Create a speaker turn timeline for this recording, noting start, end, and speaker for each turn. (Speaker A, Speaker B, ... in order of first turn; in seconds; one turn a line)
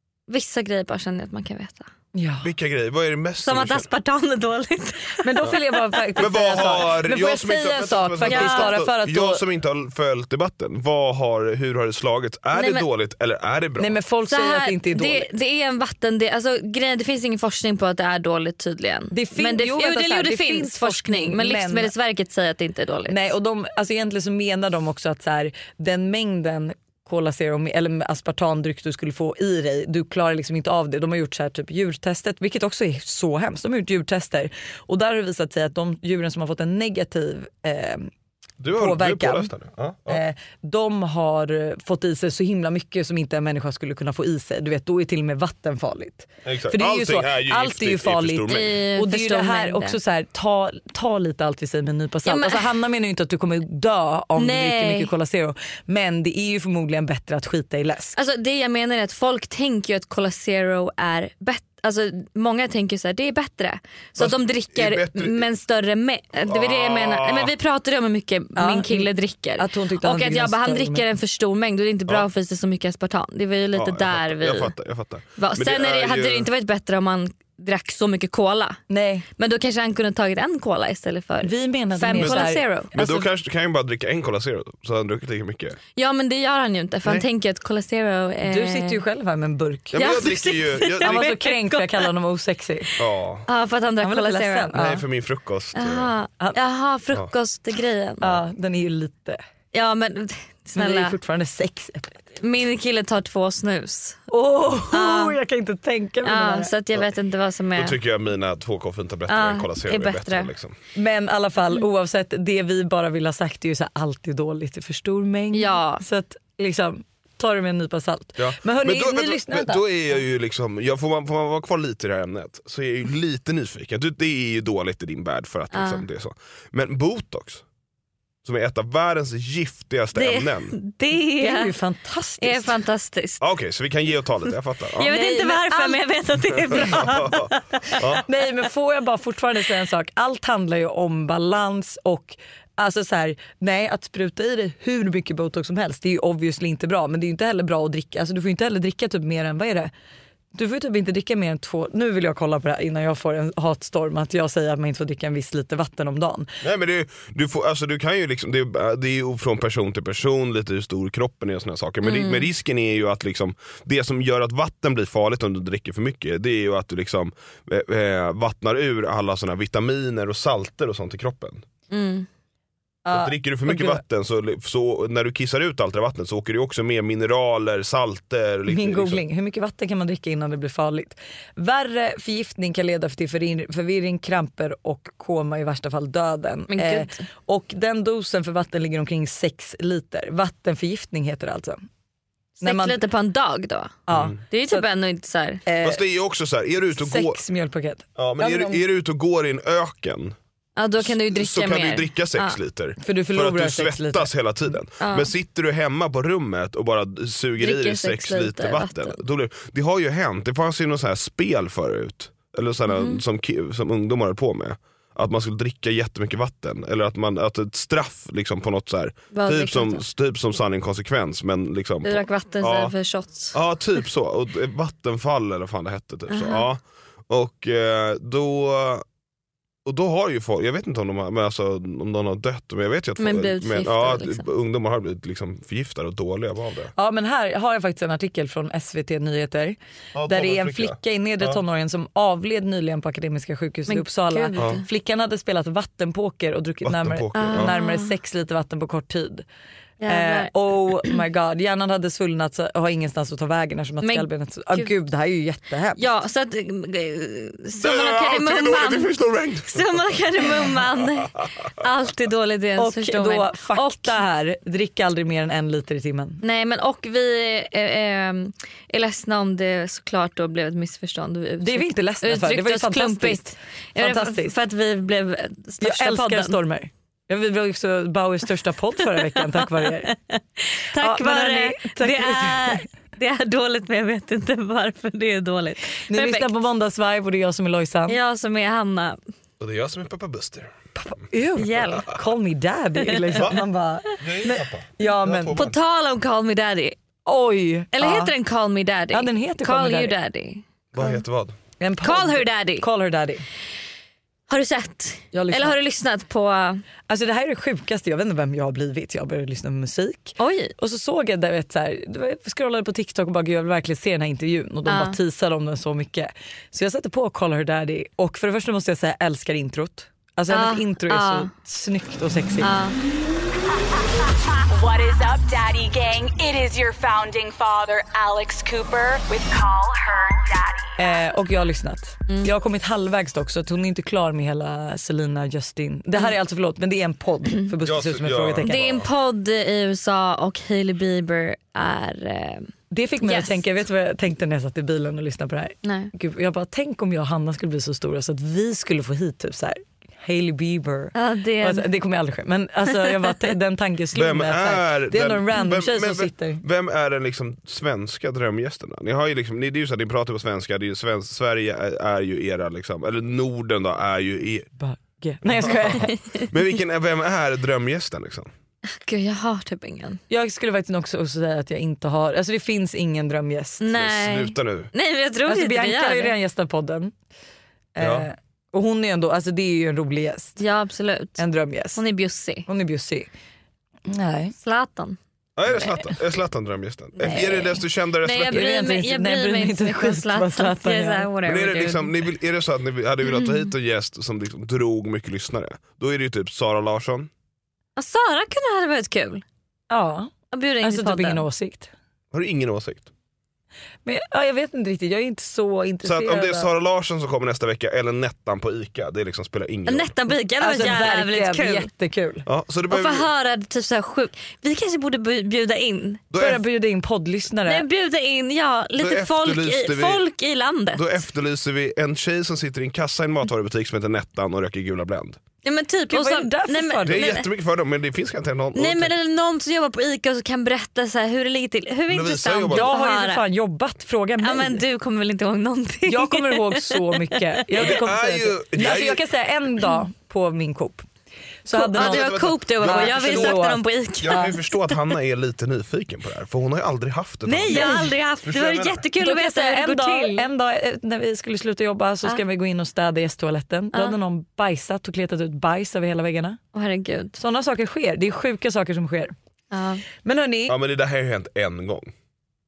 Speaker A: 0.3-1.9
Speaker B: 2.1-2.5
Speaker C: 2.4-3.9
Speaker A: 3.4-6.6
Speaker B: 5.2-9.4
Speaker C: 6.2-14.0
Speaker A: 8.3-8.7
Speaker A: 12.5-12.9
Speaker B: 13.8-15.3
Speaker A: 14.3-23.3
Speaker B: 19.1-21.9
Speaker B: 23.1-38.1
Speaker C: 38.6-40.2
Speaker B: 38.7-39.5
Speaker B: 40.1-58.2
Speaker C: 46.5-48.8
Speaker A: 48.5-50.0
Speaker A: 52.2-52.7
Speaker A: 54.4-55.1
Speaker A: 58.2-74.7
Speaker C: 64.2-65.5
Speaker C: 66.4-67.5
Speaker B: 68.6-71.0
Speaker C: 73.8-76.5
Speaker A: 75.4-78.8
Speaker B: 78.9-79.3
Speaker A: 79.4-83.3
Speaker B: 81.4-82.6
Speaker C: 82.2-85.8
Speaker A: 86.0-89.0
Speaker B: 88.4-90.0
Speaker C: 89.9-91.4
Speaker A: 90.0-92.1
Speaker B: 91.0-92.9
Speaker C: 93.0-93.5
Speaker A: 93.5-94.8
Speaker B: 94.0-95.0
Speaker C: 94.7-96.1
Speaker A: 95.8-98.2
Speaker B: 98.2-99.4
Speaker A: 99.7-101.2
Speaker B: 100.7-102.2
Speaker A: 102.4-104.2
Speaker B: 104.3-106.7
Speaker A: 104.9-105.4
Speaker A: 106.2-108.0
Speaker C: 107.8-110.8
Speaker A: 109.3-110.5
Speaker B: 111.0-119.9
Speaker A: 115.5-116.0
Speaker C: 118.4-127.6
Speaker A: 125.7-126.0
Speaker C: 128.4-130.8
Speaker A: 130.1-131.7
Speaker B: 131.4-132.7
Speaker A: 132.4-133.4
Speaker C: 133.4-135.1
Speaker A: 135.0-138.0
Speaker B: 135.0-136.0
Speaker C: 136.7-138.2
Speaker B: 136.7-137.1
Speaker B: 138.3-149.9
Speaker B: 150.6-156.5
Speaker C: 156.6-171.6
Speaker A: 162.0-162.5
Speaker A: 171.9-172.3
Speaker B: 173.1-174.0
Speaker C: 173.1-179.2
Speaker B: 178.7-191.8
Speaker A: 186.7-187.2
Speaker A: 192.6-195.7
Speaker B: 192.6-193.0
Speaker B: 194.1-194.8
Speaker C: 194.1-194.4
Speaker B: 195.7-196.0
Speaker C: 195.8-197.4
Speaker B: 197.0-198.8
Speaker C: 198.2-200.4
Speaker A: 200.8-202.6
Speaker C: 201.0-222.9
Speaker B: 203.0-204.3
Speaker A: 205.0-205.3
Speaker A: 207.6-209.2
Speaker A: 212.9-213.2
Speaker A: 219.3-220.0
Speaker A: 222.0-223.6
Speaker C: 223.5-229.0
Speaker A: 226.3-226.7
Speaker C: 229.8-236.9
Speaker A: 233.2-234.5
Speaker B: 237.0-239.8
Speaker C: 240.1-241.6
Speaker B: 240.3-249.5
Speaker A: 243.9-244.8
Speaker C: 244.6-244.8
Speaker C: 246.8-247.7
Speaker A: 247.4-248.1
Speaker A: 250.0-251.1
Speaker B: 250.1-256.0
Speaker A: 254.0-254.9
Speaker A: 256.0-259.1
Speaker C: 257.8-260.7
Speaker A: 259.7-264.2
Speaker B: 262.8-266.4
Speaker A: 266.4-276.6
Speaker B: 271.6-274.5
Speaker B: 275.8-280.1
Speaker A: 279.2-286.5
Speaker B: 281.0-282.9
Speaker B: 286.1-288.2
Speaker A: 288.1-289.2
Speaker C: 289.6-290.7
Speaker B: 291.0-295.6
Speaker A: 291.6-292.1
Speaker C: 293.4-293.6
Speaker C: 294.2-295.8
Speaker A: 295.6-297.0
Speaker B: 297.3-298.3
Speaker A: 297.9-301.2
Speaker B: 299.1-300.1
Speaker C: 300.9-301.6
Speaker B: 301.8-303.4
Speaker A: 302.0-302.9
Speaker A: 304.5-306.8
Speaker B: 305.3-305.8
Speaker B: 307.1-322.7
Speaker A: 310.4-310.7
Speaker A: 314.9-315.2
Speaker A: 320.5-321.5
Speaker A: 322.6-323.0
Speaker D: 324.8-330.4
Speaker B: 331.0-338.8
Speaker C: 337.8-339.1
Speaker A: 338.6-343.6
Speaker B: 342.9-356.6
Speaker A: 345.8-346.1
Speaker A: 351.1-351.9
Speaker C: 354.1-364.7
Speaker B: 364.8-366.2
Speaker C: 365.5-368.5
Speaker A: 368.9-370.2
Speaker B: 370.3-373.8
Speaker A: 373.8-376.3
Speaker C: 373.9-374.9
Speaker B: 375.5-377.1
Speaker B: 377.9-380.6
Speaker C: 378.0-378.3
Speaker A: 380.6-382.7
Speaker B: 381.4-382.0
Speaker B: 382.7-383.3
Speaker B: 384.1-384.5
Speaker A: 384.6-385.2
Speaker C: 385.6-388.7
Speaker A: 387.2-392.1
Speaker B: 388.5-391.3
Speaker C: 391.4-397.3
Speaker A: 393.3-393.7
Speaker A: 398.0-399.4
Speaker B: 399.9-401.9
Speaker A: 400.5-401.5
Speaker C: 402.3-403.1
Speaker B: 404.1-406.7
Speaker C: 406.0-410.1
Speaker A: 409.9-411.9
Speaker B: 410.6-412.4
Speaker C: 412.5-413.3
Speaker A: 412.9-416.2
Speaker C: 416.3-416.6
Speaker B: 416.4-417.9
Speaker A: 417.6-421.2
Speaker C: 419.0-420.2
Speaker C: 420.9-425.4
Speaker A: 425.6-427.5
Speaker B: 426.1-427.4
Speaker C: 427.0-429.1
Speaker A: 428.8-433.4
Speaker C: 432.1-432.9
Speaker B: 432.7-434.8
Speaker A: 434.4-437.2
Speaker B: 436.1-441.1
Speaker C: 437.8-439.2
Speaker B: 441.6-444.6
Speaker A: 441.7-444.8
Speaker C: 441.9-443.6
Speaker C: 444.2-449.0
Speaker A: 447.5-450.5
Speaker B: 447.7-448.1
Speaker B: 449.2-456.6
Speaker A: 456.7-457.4
Speaker B: 457.4-459.3
Speaker A: 459.7-460.0
Speaker B: 460.2-460.8
Speaker C: 460.7-462.1